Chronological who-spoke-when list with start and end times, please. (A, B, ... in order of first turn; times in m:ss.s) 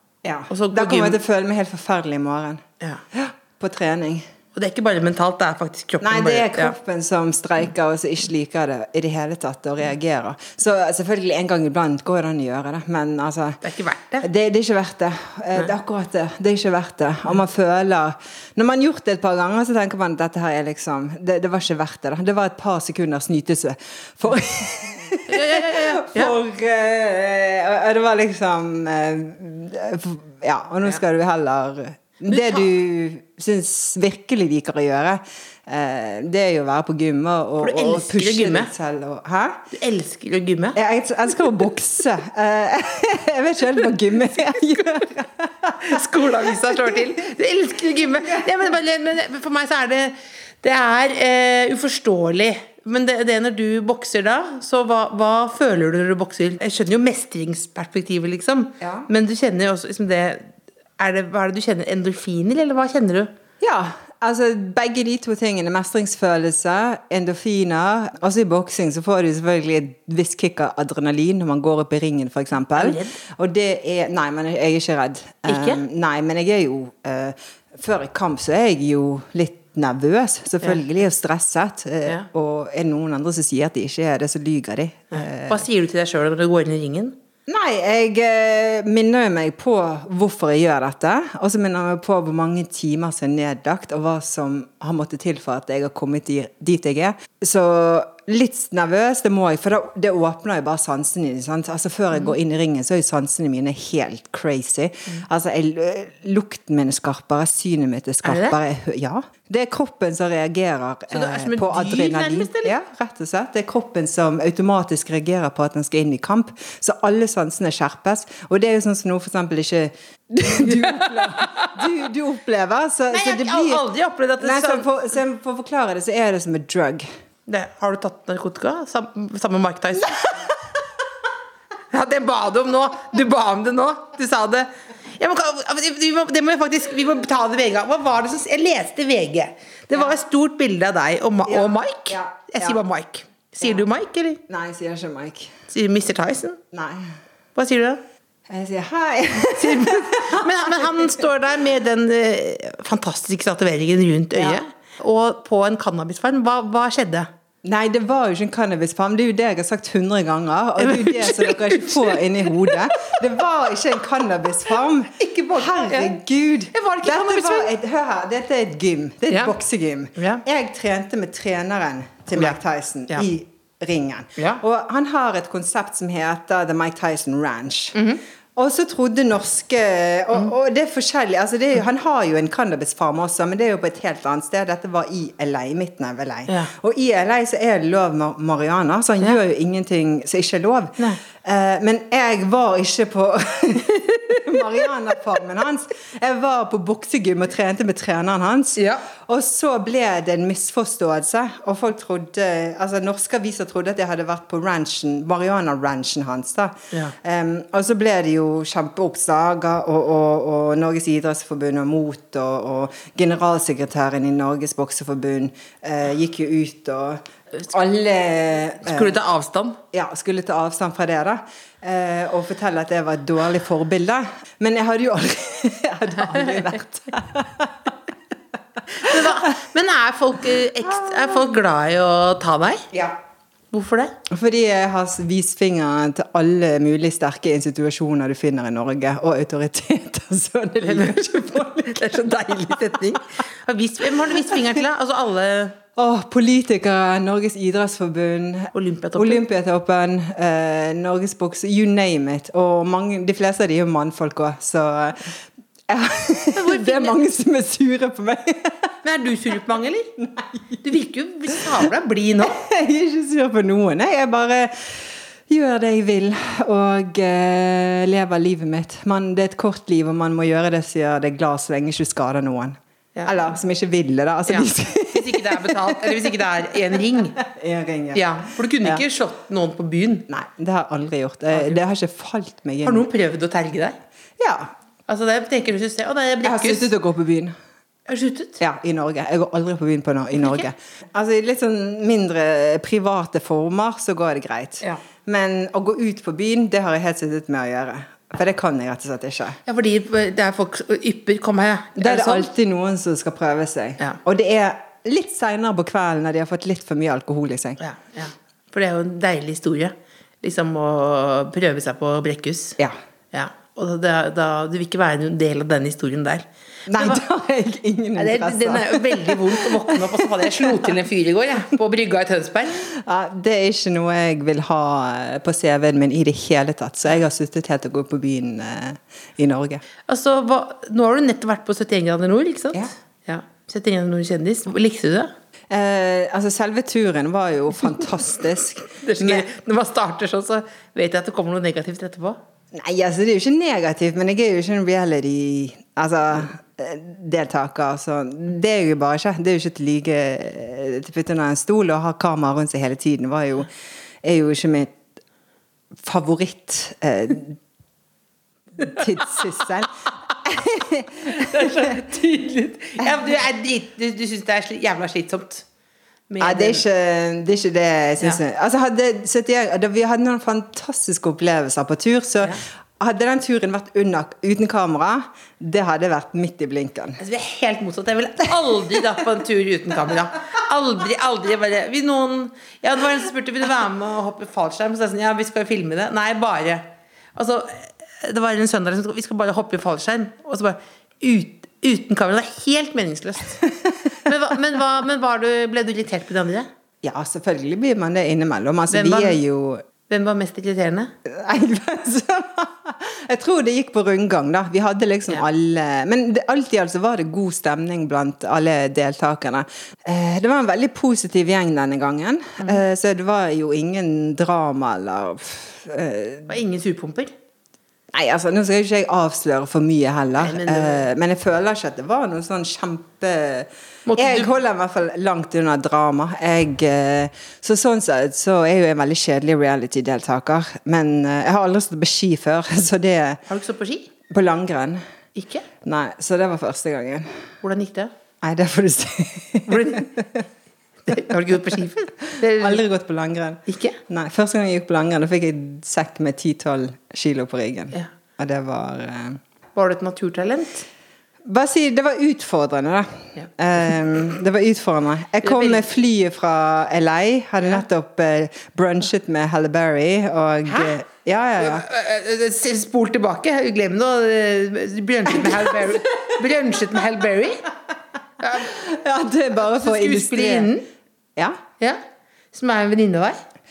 0:00.2-0:04.3 A
0:00.5-0:01.2 B
0:04.6-0:06.8 B
0:06.0-0:13.6 A
0:13.6-0:14.3 B
0:14.2-0:39.7 A
0:25.3-0:26.4 B
0:32.3-0:32.7 B
0:37.6-0:38.7 B
0:39.7-0:40.8 B
0:40.8-0:47.1 A
0:45.8-1:03.3 B
0:48.2-0:48.6 A
0:58.8-0:59.1 A
1:03.6-1:25.6 A
1:12.7-1:13.2 B
1:15.5-1:15.8 B
1:25.1-1:27.2 B
1:27.5-2:03.8 A
1:48.2-1:48.6 B
1:51.1-1:52.7 B
2:00.5-2:01.9 B
2:03.1-2:04.9 B
2:04.4-2:07.1 A
2:07.5-2:10.5 B
2:11.9-2:24.4 B
2:21.5-2:22.8 A
2:24.5-2:25.6 A
2:25.7-2:26.6 B
2:26.7-2:27.1 A
2:27.6-2:28.0 B
2:28.5-2:31.2 A
2:29.6-2:37.3 B
2:34.4-2:34.6 A
2:37.6-2:58.0 A
2:40.8-2:43.1 B
2:45.2-2:46.2 B
2:46.7-2:47.7 B
2:50.2-2:50.4 B
2:54.4-2:54.6 B
2:58.0-2:58.2 B
2:58.6-3:39.2 A
3:18.8-3:19.0 B
3:38.8-3:39.8 B
3:39.9-3:48.0 A
3:48.9-3:52.9 B
3:49.0-3:49.5 A
3:51.0-3:51.3 A
3:52.9-3:53.2 A
3:53.7-3:54.1 B
3:54.3-4:03.0 A
4:00.8-4:05.8 B
4:04.2-4:04.8 A
4:06.0-4:18.9 A
4:08.7-4:09.4 B
4:16.5-4:17.2 B
4:19.0-4:20.1 B
4:20.2-4:20.8 A
4:20.8-4:22.6 B
4:21.5-4:21.9 A
4:22.4-4:39.0 A
4:34.5-4:37.4 B
4:38.1-4:40.3 B
4:40.3-4:43.1 A
4:41.5-4:41.8 B
4:42.8-4:44.0 B
4:44.4-4:44.7 A
4:45.1-4:46.9 B
4:46.4-4:47.6 A
4:48.1-4:48.6 B
4:48.6-4:59.6 A
4:59.7-5:02.5 B
5:02.0-5:07.8 A
5:07.8-5:12.8 B
5:13.3-5:17.2 B
5:16.9-5:20.9 A
5:18.2-5:22.9 B
5:22.9-5:29.8 A
5:30.1-5:35.3 B
5:35.7-5:39.5 A
5:38.9-5:42.4 B
5:42.7-5:53.7 A
5:54.2-5:55.0 A
5:56.0-5:57.6 A
5:58.8-6:02.0 A
6:01.2-6:05.6 B
6:06.3-6:06.8 B
6:06.4-6:17.2 A
6:17.2-6:33.6 B
6:34.2-6:36.7 B
6:37.0-6:39.8 A
6:38.9-6:39.4 B
6:40.1-6:41.1 B
6:41.2-6:56.5 A
6:56.5-6:57.3 B
6:58.1-7:13.4 A
7:00.4-7:01.0 B
7:04.1-7:04.5 B
7:13.5-7:14.1 B
7:14.3-7:15.0 A
7:15.4-7:15.7 B
7:15.8-7:17.4 A
7:17.6-7:18.1 B
7:18.4-7:20.4 A
7:19.7-7:20.1 B
7:21.1-7:22.8 B
7:21.1-7:21.4 A
7:22.4-7:29.4 A
7:23.7-7:24.0 B
7:29.8-7:30.9 B
7:31.4-7:41.9 A
7:35.4-7:35.8 B
7:40.7-7:41.0 B
7:41.6-7:47.7 B
7:45.4-7:46.0 A
7:48.4-7:48.7 B
7:48.6-7:50.7 A
7:49.6-7:50.9 B
7:52.5-7:53.4 B